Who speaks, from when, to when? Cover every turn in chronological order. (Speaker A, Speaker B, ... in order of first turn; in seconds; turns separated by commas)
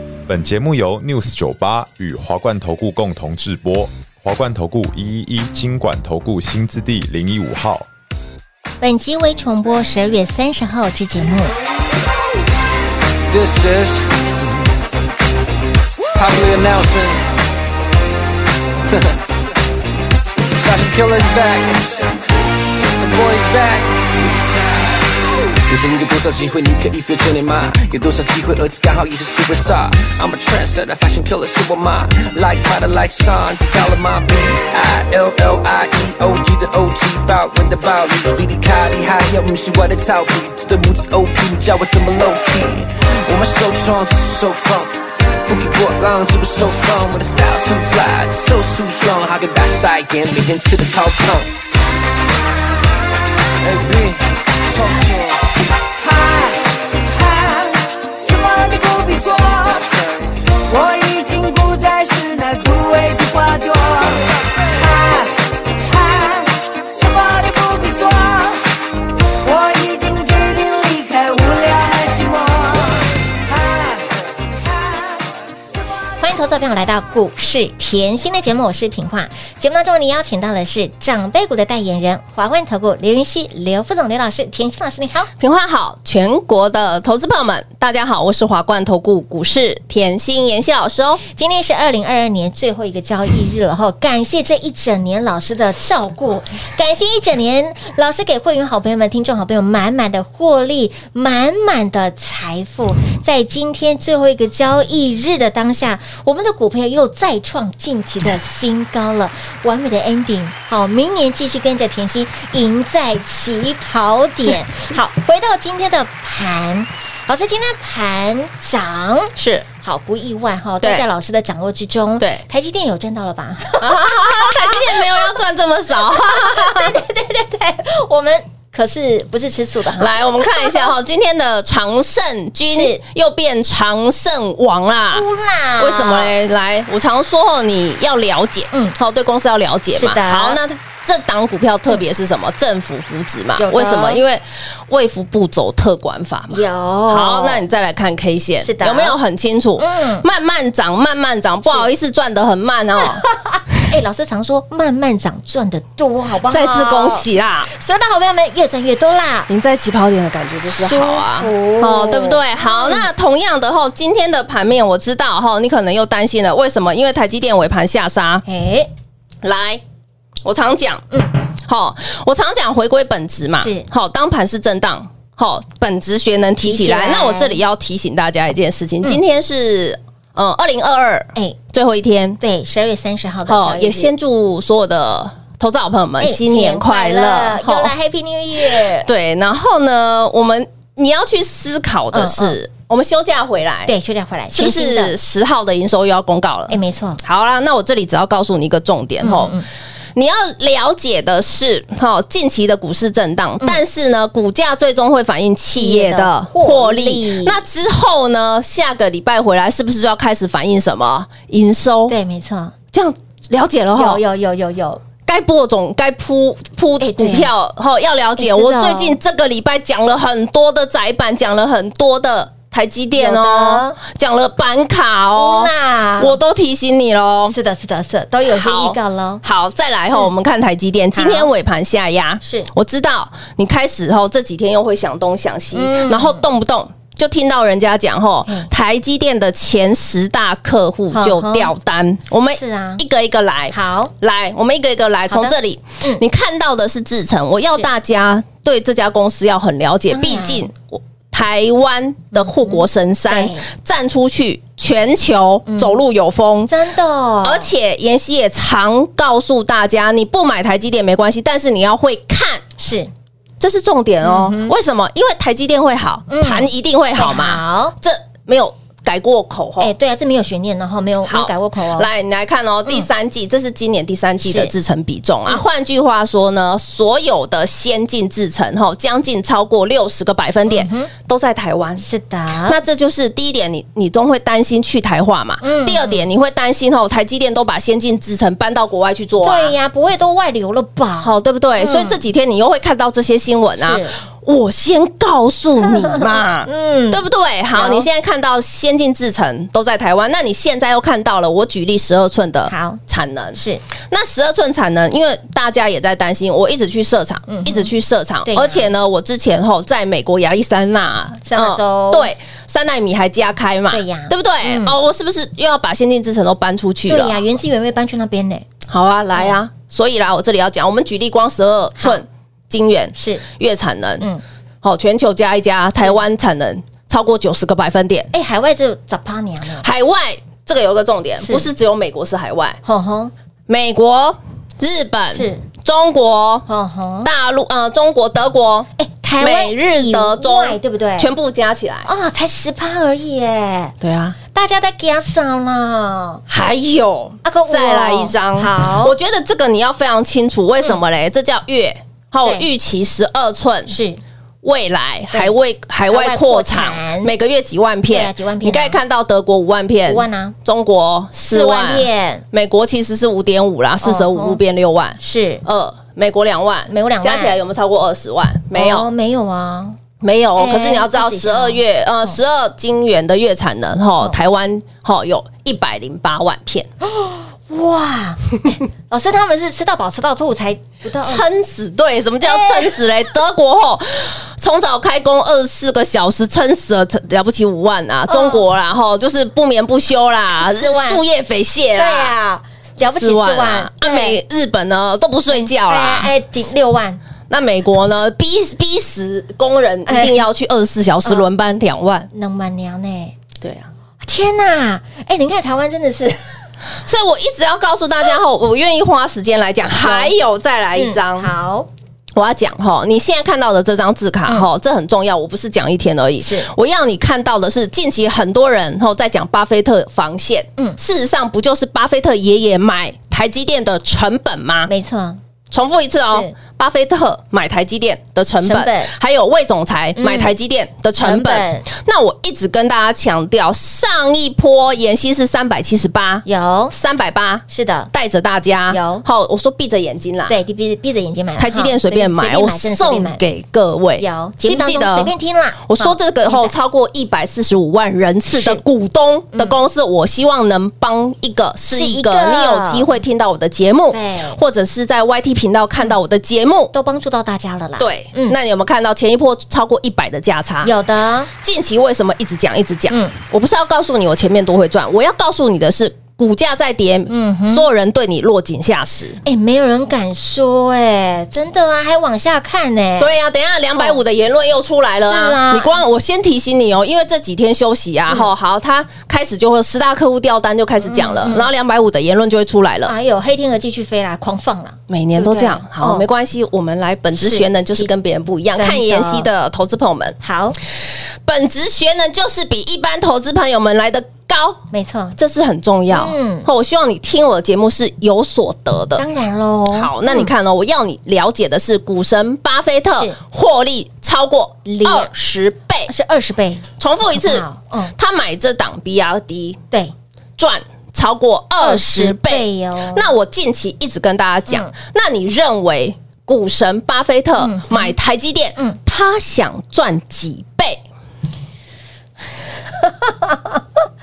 Speaker A: 0.3-7.9, Speaker B: 8.8-11.6, Speaker C: 13.3-14.1, Speaker C: 16.1-17.3, Speaker C: 18.9-19.1, Speaker C: 20.5-22.2, Speaker C: 22.9-44.9, Speaker C: 45.5-51.5, Speaker C: 53.6-55.5, Speaker D: 56.0-59.8, Speaker D: 60.6-64.2, Speaker D: 64.7-68.6, Speaker D: 69.4-74.0, Speaker B: 76.2-85.3, Speaker E: 85.4-91.2, Speaker B: 91.3-125.4, Speaker E: 119.4-119.7, Speaker E: 123.8-127.0, Speaker B: 126.0-130.9, Speaker E: 130.0-135.2, Speaker B: 132.7-133.0, Speaker B: 135.1-136.3, Speaker E: 135.8-153.2, Speaker B: 139.9-140.6, Speaker B: 143.6-144.2, Speaker B: 146.5-147.6, Speaker B: 148.6-149.2, Speaker B: 149.8-150.2, Speaker B: 151.6-151.9, Speaker B: 153.2-159.5, Speaker E: 156.5-157.7, Speaker E: 159.5-168.4, Speaker B: 160.7-163.1, Speaker B: 168.4-168.9, Speaker E: 169.4-169.8, Speaker E: 170.4-171.1, Speaker E: 171.6-182.4, Speaker B: 173.6-173.8, Speaker B: 176.6-177.6, Speaker B: 182.4-184.1, Speaker E: 183.5-187.9, Speaker B: 186.2-189.1, Speaker E: 188.7-193.9, Speaker B: 192.1-192.6, Speaker B: 193.9-195.1, Speaker E: 194.5-199.6, Speaker B: 196.7-197.2, Speaker B: 199.2-199.6, Speaker E: 200.2-212.1, Speaker B: 205.7-207.6, Speaker B: 212.1-212.7, Speaker E: 212.9-214.2, Speaker B: 213.9-215.0, Speaker E: 215.2-227.6, Speaker B: 217.0-217.5, Speaker B: 218.4-219.2, Speaker B: 223.2-224.0, Speaker B: 225.3-226.4, Speaker B: 227.5-229.4, Speaker E: 228.5-256.7, Speaker B: 231.1-231.5, Speaker B: 232.4-232.7, Speaker B: 235.7-236.4, Speaker B: 241.1-241.7, Speaker B: 242.5-243.0, Speaker B: 243.7-244.1, Speaker B: 245.3-246.2, Speaker B: 250.1-250.7, Speaker B: 252.3-253.7, Speaker B: 255.7-256.0, Speaker B: 256.7-257.7, Speaker E: 257.4-262.6, Speaker B: 262.8-263.1, Speaker E: 263.6-269.9, Speaker B: 264.2-264.7, Speaker B: 266.3-267.9, Speaker B: 269.8-272.1, Speaker E: 271.2-282.0, Speaker B: 274.4-274.7, Speaker B: 280.7-281.1, Speaker B: 282.0-282.8, Speaker E: 282.7-289.7, Speaker B: 285.6-286.2, Speaker B: 289.4-292.2, Speaker E: 291.2-303.6, Speaker B: 293.8-294.1, Speaker B: 295.8-297.2, Speaker B: 297.7-298.1, Speaker B: 302.7-303.0, Speaker B: 303.5-303.8, Speaker E: 304.1-317.4, Speaker B: 307.5-307.9, Speaker B: 308.4-308.9, Speaker B: 311.4-312.3, Speaker B: 313.9-314.9, Speaker B: 317.1-318.6, Speaker E: 318.9-324.2, Speaker B: 323.1-323.4, Speaker E: 324.8-328.3, Speaker B: 328.3-329.9, Speaker E: 329.8-332.8, Speaker B: 331.4-331.7, Speaker B: 332.8-333.3, Speaker E: 333.7-336.6, Speaker B: 335.3-335.6, Speaker B: 336.7-337.3, Speaker E: 337.2-338.9, Speaker B: 339.0-341.3, Speaker E: 339.4-342.1, Speaker B: 342.0-343.9, Speaker E: 344.0-344.4, Speaker B: 344.5-346.4, Speaker E: 346.5-353.9, Speaker B: 347.4-349.1, Speaker B: 353.9-354.2, Speaker E: 354.6-369.1, Speaker B: 356.1-357.3, Speaker B: 358.1-359.0, Speaker B: 360.1-360.6, Speaker B: 361.4-362.4, Speaker B: 364.0-364.6, Speaker B: 365.2-365.6, Speaker B: 366.9-367.6, Speaker B: 368.7-370.0, Speaker E: 370.2-376.9, Speaker B: 370.6-372.4, Speaker B: 377.0-381.4, Speaker E: 381.2-392.3, Speaker B: 382.4-383.0, Speaker B: 388.3-388.6, Speaker B: 390.6-391.2, Speaker B: 391.9-394.4, Speaker E: 393.0-396.3, Speaker B: 395.5-397.2, Speaker E: 397.5-402.3, Speaker B: 400.1-400.4, Speaker B: 402.3-403.3, Speaker E: 403.6-403.9, Speaker B: 404.2-406.4, Speaker E: 407.0-411.5, Speaker B: 409.9-410.3, Speaker B: 410.9-411.9, Speaker E: 412.4-424.9, Speaker B: 416.4-416.7, Speaker B: 424.9-425.4, Speaker E: 425.7-440.6, Speaker B: 426.3-426.5, Speaker B: 428.6-429.1, Speaker B: 430.2-430.5, Speaker B: 431.2-431.9, Speaker B: 436.4-436.9, Speaker B: 437.7-438.1, Speaker B: 438.9-439.2, Speaker B: 440.5-443.4, Speaker E: 441.6-445.3, Speaker B: 444.2-446.7, Speaker E: 445.9-456.9, Speaker B: 448.5-448.8, Speaker B: 449.5-449.8, Speaker B: 451.9-453.1, Speaker B: 454.1-454.6, Speaker B: 456.9-458.6, Speaker E: 458.0-460.9, Speaker B: 460.8-461.5, Speaker E: 461.6-469.4, Speaker B: 463.1-463.3, Speaker B: 467.3-467.9, Speaker B: 469.4-473.3, Speaker E: 473.2-483.1, Speaker B: 475.2-476.0, Speaker B: 481.0-481.7, Speaker B: 483.1-486.2, Speaker E: 485.1-490.4, Speaker B: 487.3-488.1, Speaker B: 488.7-489.5, Speaker B: 490.4-490.8, Speaker E: 491.4-494.8, Speaker B: 494.9-495.4, Speaker E: 495.4-499.2, Speaker B: 496.1-496.7, Speaker B: 499.1-500.5, Speaker E: 499.9-506.1, Speaker B: 503.1-503.4, Speaker B: 504.9-505.3, Speaker B: 506.1-508.1, Speaker E: 507.0-507.6, Speaker E: 508.1-509.8, Speaker E: 510.6-521.0, Speaker B: 511.8-513.3, Speaker B: 514.7-514.9, Speaker B: 517.6-518.1, Speaker B: 522.9-523.9